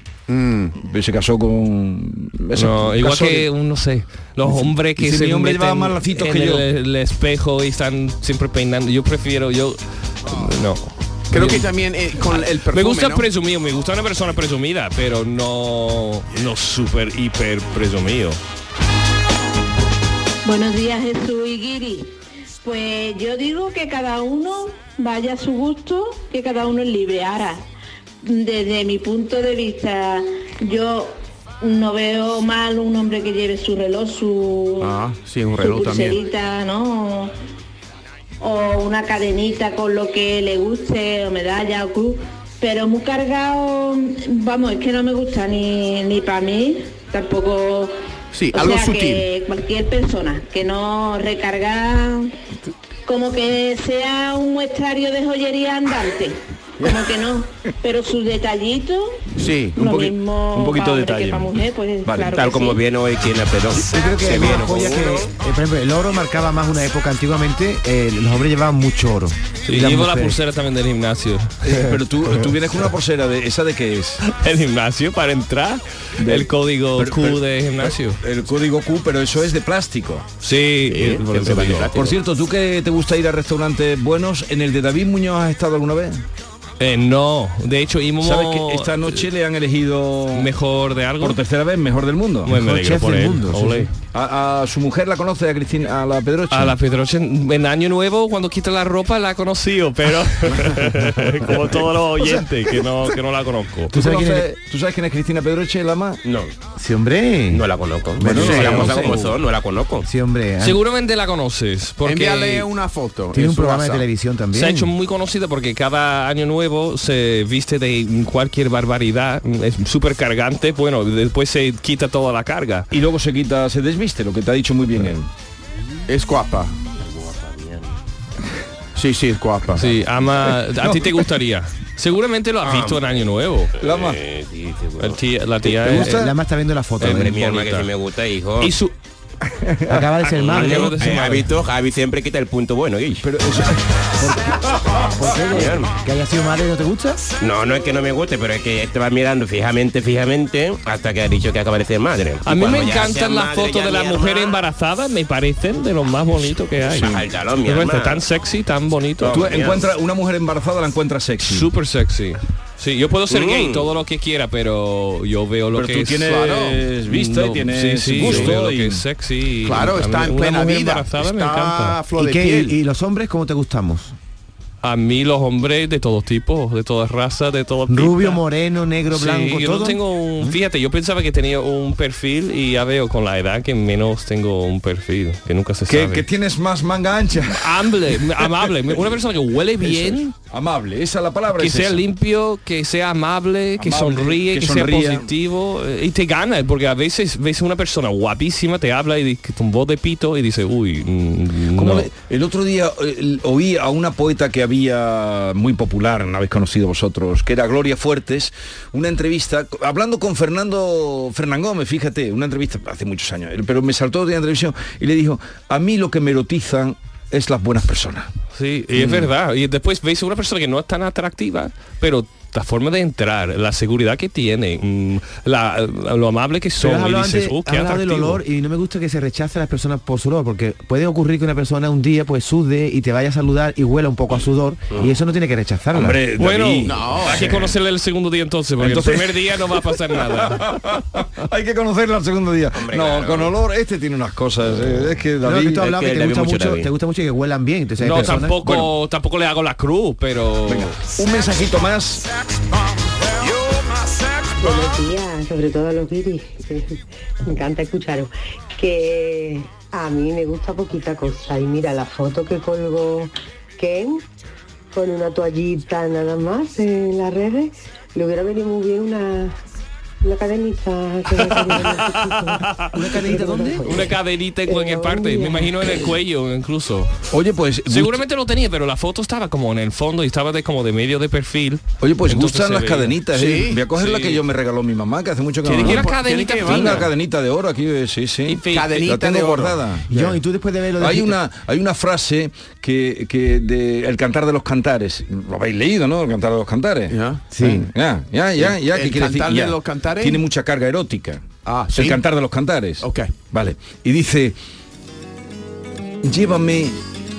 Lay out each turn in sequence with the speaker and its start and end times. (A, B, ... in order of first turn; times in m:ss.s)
0:00.3-0:00.7 A
0:00.8-0:03.5 B
0:02.5-0:11.6 C
0:04.4-0:06.6 B
0:11.3-0:13.3 A
0:12.3-0:18.4 C
0:20.4-0:27.6 D
0:28.2-0:35.0 D
0:34.8-0:36.2 A
0:35.6-0:37.3 D
0:38.4-0:47.9 D
0:48.3-0:49.3 A
0:48.5-0:52.3 D
0:53.0-0:59.2 D
0:59.4-0:59.8 A
0:59.8-1:02.4 B
0:59.8-1:02.8 D
1:02.3-1:05.3 E
1:03.9-1:10.4 F
1:09.6-1:12.4 C
1:11.6-1:14.2 B
1:14.2-1:18.2 C
1:16.2-1:20.2 B
1:20.4-1:22.0 C
1:21.1-1:22.1 E
1:21.9-1:26.2 B
1:26.8-1:29.2 C
1:28.2-1:30.5 B
1:30.3-1:31.4 C
1:31.2-1:32.6 B
1:32.4-1:33.9 C
1:32.5-1:33.9 F
1:34.1-1:36.8 B
1:36.5-1:44.0 C
1:43.9-1:44.5 F
1:43.9-1:46.2 B
1:46.2-1:46.5 E
1:46.8-1:47.6 F
1:47.5-1:50.1 E
1:48.2-1:49.2 B
1:48.3-1:49.2 C
1:48.3-1:48.9 A
1:50.0-1:50.8 F
1:50.6-1:52.7 C
1:52.0-1:54.0 A
1:53.3-1:54.9 F
1:54.5-2:02.9 C
2:02.9-2:05.3 B
2:06.1-2:06.7 A
2:09.0-2:09.9 A
2:09.8-2:13.7 C
2:10.8-2:11.2 B
2:12.6-2:13.0 E
2:13.8-2:14.2 B
2:13.8-2:15.2 E
2:15.0-2:16.3 C
2:15.7-2:16.3 B
2:15.9-2:17.4 F
2:17.0-2:17.9 C
2:17.0-2:18.7 E
2:18.6-2:18.9 C
2:19.6-2:20.0 B
2:19.9-2:21.0 F
2:20.2-2:21.5 C
2:20.4-2:23.2 E
2:23.2-2:23.8 B
2:24.2-2:27.2 F
2:25.5-2:25.9 E
2:27.4-2:34.6 E
2:32.4-2:39.8 C
2:36.9-2:38.2 E
2:39.2-2:39.8 E
2:39.2-2:41.7 B
2:41.4-2:52.0 C
2:43.3-2:43.9 E
2:45.7-2:49.0 B
2:46.3-2:46.8 A
2:48.2-2:48.5 A
2:49.6-2:52.7 A
2:52.1-2:54.1 F
2:54.8-2:58.4 C
2:57.9-3:00.6 F
2:59.1-3:06.2 C
3:05.9-3:07.8 B
3:07.4-3:10.3 C
3:08.4-3:08.7 B
3:09.8-3:12.0 B
3:11.6-3:22.1 C
3:13.8-3:15.3 B
3:21.7-3:38.3 B
3:38.5-3:48.4 C
3:46.8-3:56.2 F
3:55.9-3:57.7 B
3:56.4-4:00.6 C
3:56.8-3:57.5 A
3:58.8-3:59.5 B
4:00.1-4:05.8 B
4:02.7-4:03.5 E
4:05.4-4:08.6 F
4:05.8-4:06.9 E
4:08.0-4:10.9 C
4:08.6-4:08.9 B
4:10.7-4:12.2 B
4:14.6-4:24.3 G
4:24.9-4:29.6 G
4:30.2-4:34.1 G
4:31.4-4:32.9 C
4:32.9-4:34.0 F
4:33.8-4:37.1 C
4:34.6-4:35.8 G
4:37.3-4:38.2 B
4:37.9-4:43.2 C
4:42.0-4:50.0 B
4:43.3-4:43.8 A
4:44.0-4:44.4 C
4:45.6-4:47.1 A
4:45.7-4:47.1 C
4:48.4-4:49.1 C
4:48.7-4:50.4 A
4:50.1-4:51.4 F
4:51.0-5:04.6 B
4:57.1-4:57.5 A
4:57.5-4:57.9 F
4:58.6-5:00.4 A
5:01.6-5:02.2 A
5:03.0-5:03.3 A
5:06.2-5:07.0 B